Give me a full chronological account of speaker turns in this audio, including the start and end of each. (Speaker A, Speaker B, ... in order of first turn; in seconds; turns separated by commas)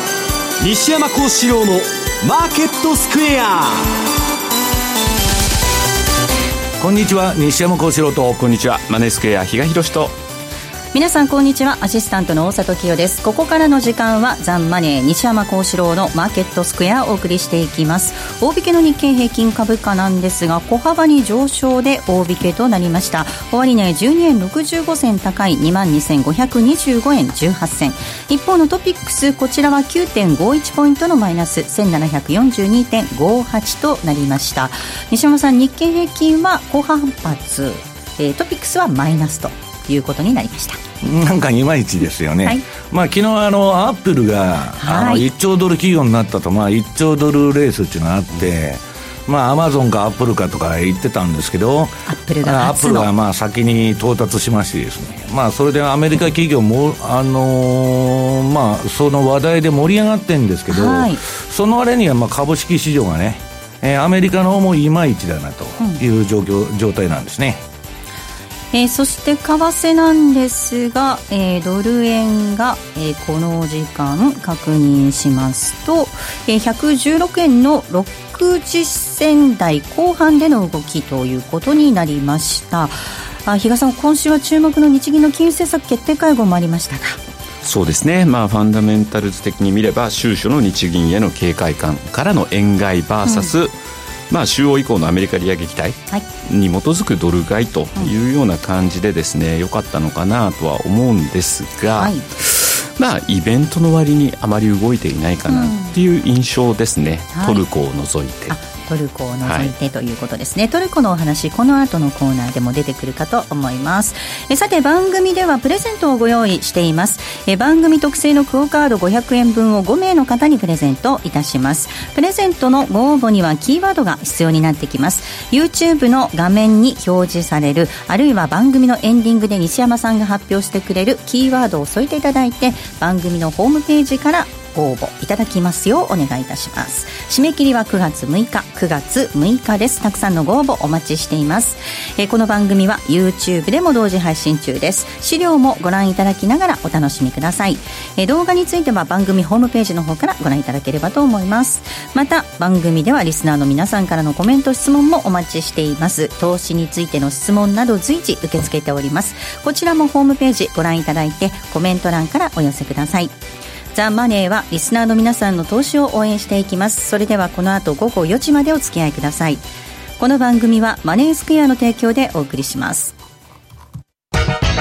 Speaker A: 0.6-3.9, Speaker B: 6.8-8.5, Speaker C: 8.5-10.1, Speaker D: 10.9-40.8, Speaker B: 41.0-67.6, Speaker D: 44.8-45.2, Speaker D: 52.1-53.1, Speaker D: 60.7-61.2, Speaker D: 68.7-87.2, Speaker C: 87.6-93.7, Speaker D: 93.2-93.5, Speaker C: 94.3-108.5, Speaker D: 102.0-102.2, Speaker D: 105.5-105.9, Speaker D: 107.3-107.6, Speaker D: 108.5-163.3, Speaker C: 109.4-109.7, Speaker D: 163.9-169.6, Speaker D: 170.2-173.1